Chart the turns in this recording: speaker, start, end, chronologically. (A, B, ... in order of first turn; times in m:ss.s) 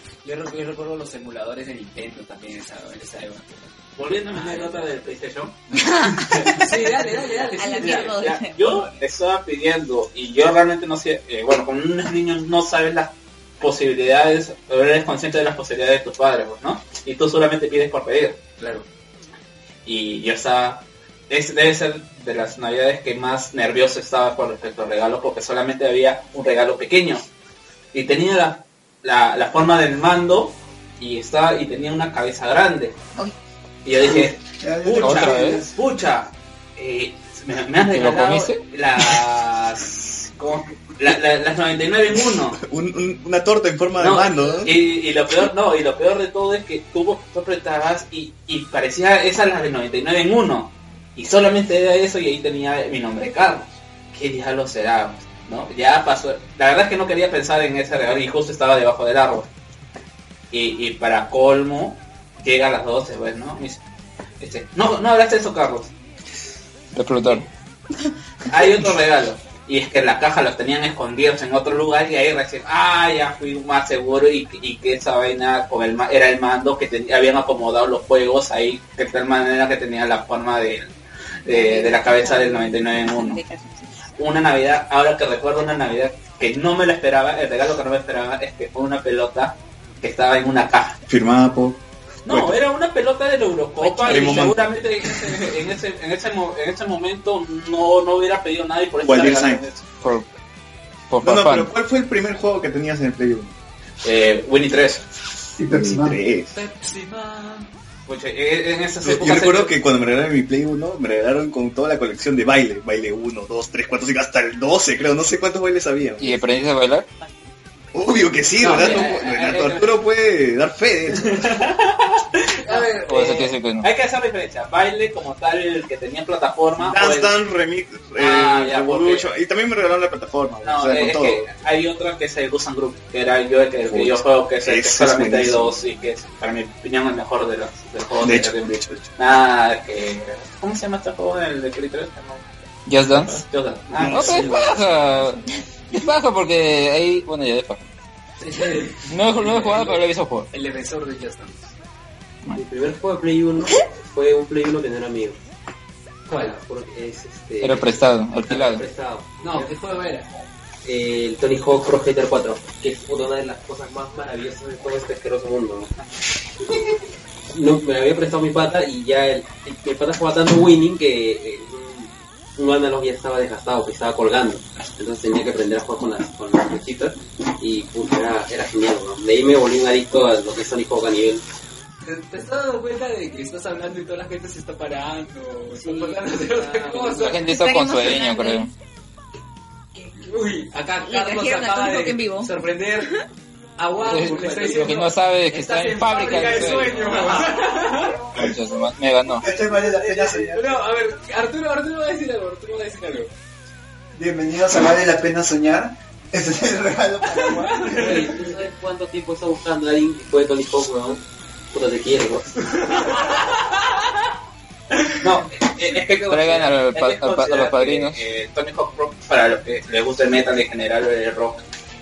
0:00.2-0:03.8 A
0:04.0-0:06.7 B
0:04.3-0:04.9 A
0:05.8-0:06.5 C
0:06.5-0:08.2 A
0:07.6-0:08.9 C
0:07.7-0:18.4 B
0:18.6-0:18.8 A
0:19.8-0:27.2 B
0:27.9-0:33.0 B
0:33.8-0:42.6 B
0:34.0-0:35.8 D
0:35.0-0:35.6 E
0:37.9-0:38.6 E
0:42.6-0:44.8 F
0:44.0-0:59.5 B
1:00.5-1:03.8 B
1:04.4-1:05.9 B
1:06.9-1:07.5 E
1:08.5-1:20.9 B
1:21.4-1:23.4 B
1:21.5-1:24.1 C
1:24.1-1:31.0 B
1:31.1-1:32.6 F
1:32.2-1:39.9 B
1:33.8-1:34.4 C
1:34.0-1:34.6 F
1:39.0-1:39.6 F
1:40.0-1:40.3 E
1:41.1-1:41.7 E
1:41.2-1:43.5 F
1:44.0-1:45.1 B
1:45.6-1:46.2 D
1:45.7-1:46.5 F
1:46.5-1:47.7 A
1:48.1-1:49.7 B
1:49.0-1:56.4 F
1:56.2-1:57.1 E
1:57.9-2:01.6 F
1:58.6-2:00.0 B
2:01.3-2:07.3 B
2:02.6-2:03.5 A
2:03.0-2:03.9 E
2:06.8-2:11.6 F
2:08.2-2:09.3 B
2:10.6-2:22.5 B
2:13.9-2:15.8 F
2:18.2-2:19.1 F
2:22.8-2:23.4 E
2:23.1-2:24.5 B
2:24.0-2:24.7 F
2:24.1-2:27.9 E
2:28.4-2:29.9 A
2:29.0-2:30.5 E
2:30.5-2:31.7 A
2:32.5-2:35.4 G
2:36.3-2:39.7 G
2:37.6-2:38.8 E
2:39.4-2:40.3 A
2:40.8-2:45.9 G
2:47.5-3:01.4 G
3:02.0-3:07.4 A
3:05.8-3:07.3 G
3:07.1-3:08.7 E
3:07.4-3:08.7 C
3:10.0-3:13.1 A
3:11.0-3:12.5 C
3:13.8-3:18.2 A
3:14.0-3:17.5 E
3:14.0-3:14.9 G
3:16.5-3:17.4 G
3:18.3-3:19.5 E
3:19.4-3:20.8 D
3:20.4-3:23.3 A
3:24.1-3:28.3 D
3:27.3-3:28.2 A
3:27.8-3:32.6 G
3:32.9-3:33.7 A
3:35.2-3:41.6 B
3:36.2-3:38.2 E